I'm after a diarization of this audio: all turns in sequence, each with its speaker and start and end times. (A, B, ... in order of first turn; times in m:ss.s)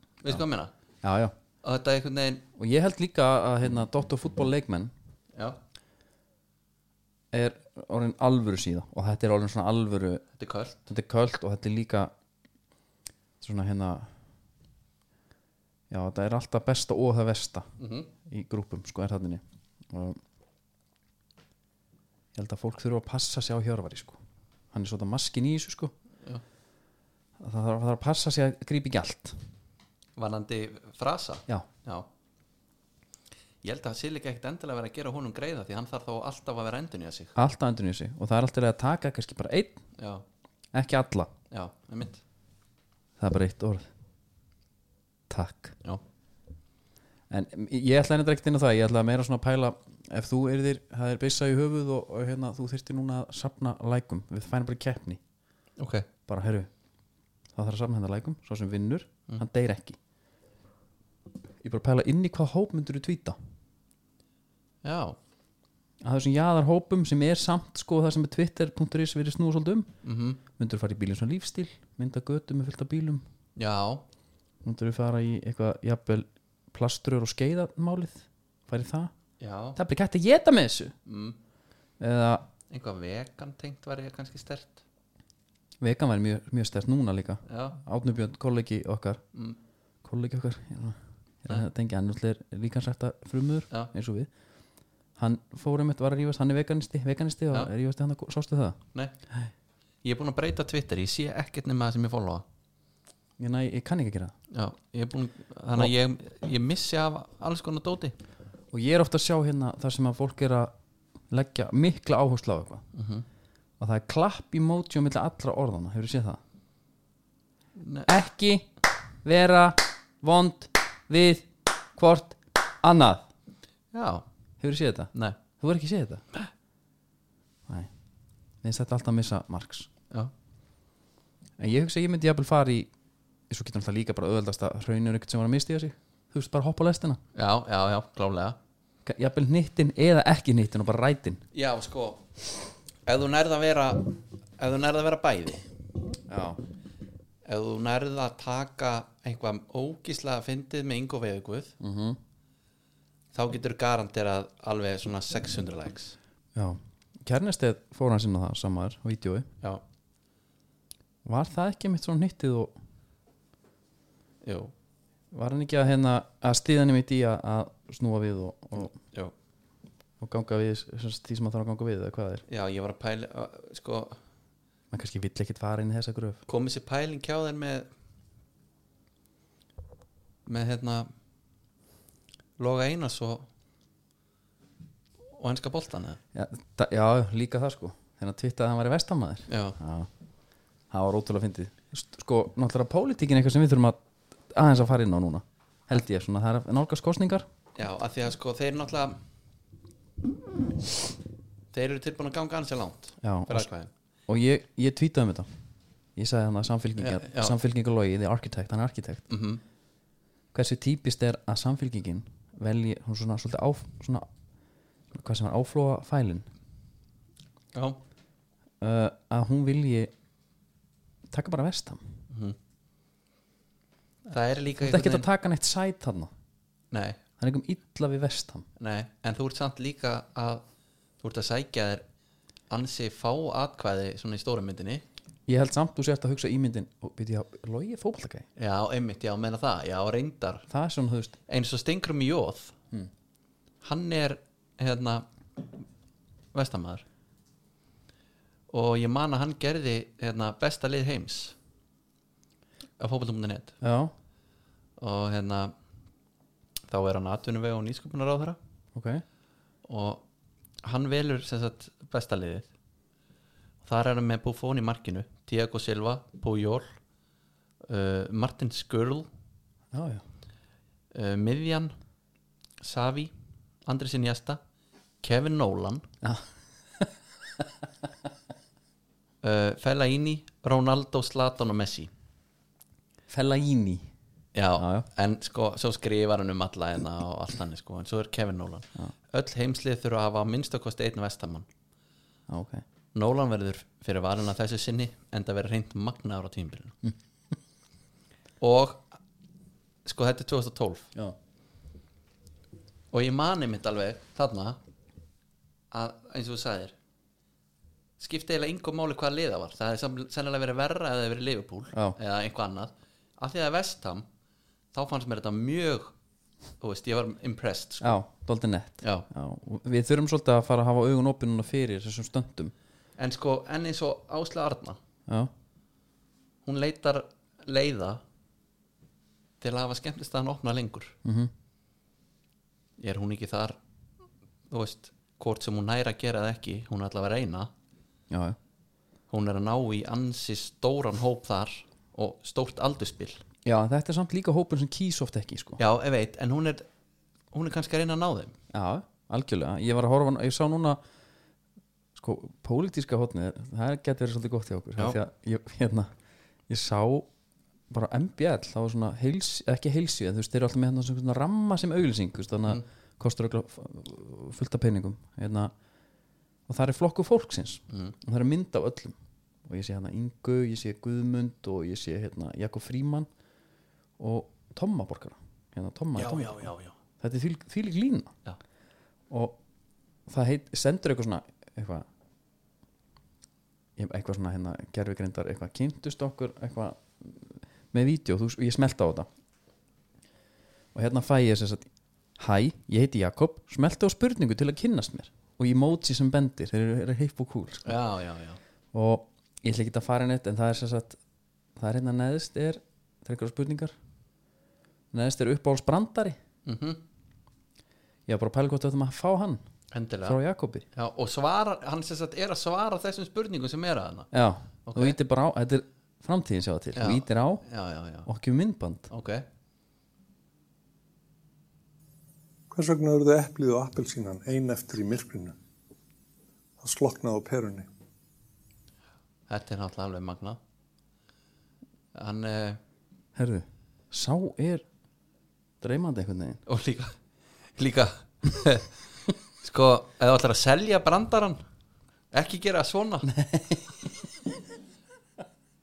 0:00.2-0:00.7 A
0:01.0-0:01.3 B
0:01.6-0:02.4 A
0:02.6-0:04.9 B
0:07.3-0:10.2 B
0:10.4-0:10.8 A
0:10.9-0:12.1 B
0:13.4-0:14.1 B
0:15.9-0:17.7 B
0:17.8-0:18.1 A
0:18.2-0:20.2 B
0:22.3-0:24.2 B
0:24.7-0:25.9 B
0:27.4-0:29.4 B
0:30.2-0:32.1 A
0:33.6-0:37.3 A
0:37.4-0:39.8 B
0:40.0-0:40.2 A
0:40.7-0:41.3 B
0:41.5-0:42.2 A
0:43.2-0:43.9 B
0:45.3-0:45.8 B
0:47.3-0:55.2 B
0:55.8-0:56.1 A
0:56.3-0:56.7 B
0:57.5-1:00.0 B
1:01.6-1:03.4 B
1:04.8-1:05.2 A
1:06.0-1:09.9 B
1:10.0-1:10.4 A
1:10.5-1:13.2 B
1:13.6-1:14.0 A
1:14.6-1:19.1 B
1:19.4-1:19.8 A
1:19.8-1:20.9 B
1:21.0-1:21.4 A
1:22.0-1:22.5 B
1:22.7-1:24.8 A
1:25.8-1:29.2 B
1:27.5-1:27.8 A
1:30.0-1:34.3 B
1:35.2-1:38.8 B
1:40.0-1:42.4 A
1:43.4-1:44.3 B
1:44.5-1:48.1 A
1:48.7-1:50.7 B
1:51.3-1:52.8 B
1:52.9-1:53.2 A
1:53.8-1:56.4 B
1:57.8-1:58.1 A
1:58.1-1:58.7 B
1:59.2-2:03.2 B
2:03.9-2:04.2 A
2:04.6-2:06.2 B
2:08.6-2:09.9 B
2:11.6-2:12.9 B
2:13.5-2:17.2 B
2:17.3-2:18.6 A
2:19.0-2:21.4 B
2:21.5-2:22.3 A
2:23.0-2:25.6 A
2:26.3-2:26.6 B
2:27.4-2:31.8 A
2:31.8-2:32.2 B
2:33.3-2:36.2 A
2:36.5-2:39.5 B
2:41.2-2:42.7 B
2:44.4-2:44.7 A
2:45.3-2:48.9 B
2:50.2-2:52.4 B
2:52.5-2:54.2 A
2:54.9-2:56.4 B
2:56.5-2:57.9 A
3:00.4-3:01.1 A
3:02.6-3:03.5 A
3:05.4-3:06.2 A
3:06.3-3:10.1 B
3:09.5-3:09.8 A
3:10.9-3:14.0 B
3:14.5-3:17.4 B
3:17.8-3:19.2 A
3:21.7-3:23.9 A
3:23.2-3:23.7 B
3:24.3-3:25.5 B
3:26.2-3:29.2 B
3:27.0-3:27.5 A
3:29.3-3:29.6 A
3:30.5-3:34.3 B
3:35.1-3:36.5 B
3:37.7-3:38.0 A
3:38.8-3:40.1 B
3:41.3-3:42.0 B
3:42.3-3:42.6 A
3:44.3-3:45.3 A
3:44.8-3:46.3 B
3:46.9-3:47.2 A
3:47.4-3:48.6 B
3:48.8-3:50.6 A
3:51.2-3:52.0 A
3:52.7-3:55.0 A
3:55.5-3:58.5 B
3:58.6-4:00.7 A
4:00.7-4:01.4 B
4:01.5-4:02.7 A
4:03.8-4:05.2 A
4:06.5-4:07.0 A
4:08.7-4:11.6 A
4:13.0-4:13.7 A
4:13.8-4:14.1 B
4:15.0-4:15.7 A
4:16.9-4:18.6 A
4:18.9-4:19.2 B
4:19.8-4:20.2 A
4:20.8-4:22.7 A
4:23.8-4:26.9 A
4:27.8-4:29.3 A
4:29.9-4:30.2 B
4:31.1-4:31.9 A
4:32.8-4:33.3 A
4:33.8-4:34.6 A
4:35.2-4:36.1 A
4:39.4-4:42.1 A
4:43.3-4:44.1 B
4:44.5-4:51.6 A
4:44.8-4:45.1 B
4:52.5-4:52.8 B
4:53.1-4:57.0 A
4:58.6-4:59.2 A
5:00.0-5:01.1 A
5:03.1-5:04.8 A
5:05.9-5:06.9 A
5:08.2-5:14.2 A
5:14.9-5:16.1 A
5:16.8-5:18.2 A
5:18.0-5:22.7 B
5:23.2-5:25.0 A
5:26.6-5:28.2 A
5:29.6-5:31.1 A
5:31.2-5:31.5 B
5:33.0-5:33.8 A
5:34.7-5:37.7 A
5:38.3-5:38.6 B
5:39.3-5:43.4 A
5:43.6-5:45.8 B
5:45.8-5:46.8 A
5:47.5-5:48.5 A
5:48.7-5:51.0 B
5:52.2-5:56.1 B
5:56.7-5:57.3 B
5:57.9-6:05.7 B
6:06.7-6:09.1 B
6:07.9-6:08.1 A
6:09.6-6:13.3 B
6:14.2-6:18.3 B
6:16.1-6:16.9 A
6:19.3-6:19.6 B
6:20.3-6:22.0 B
6:24.0-6:29.3 B
6:30.9-6:38.0 B
6:37.8-6:38.6 A
6:38.9-6:41.2 B
6:41.8-6:43.9 B
6:45.1-6:46.4 B
6:46.6-6:47.0 A
6:48.3-6:49.6 B
6:49.9-6:50.4 A
6:50.2-6:50.8 B
6:50.9-6:54.3 A
6:54.3-6:57.6 B
6:54.8-6:55.2 A
6:57.0-6:58.3 A
6:58.2-6:59.1 B
6:59.1-6:59.4 A
7:02.7-7:05.5 C
7:06.8-7:07.9 C
7:09.5-7:10.6 A
7:12.1-7:12.8 A
7:13.3-7:14.8 B
7:15.8-7:16.6 B
7:16.7-7:17.1 A
7:17.8-7:18.9 A
7:19.6-7:21.6 A
7:22.3-7:23.3 A
7:23.2-7:24.6 B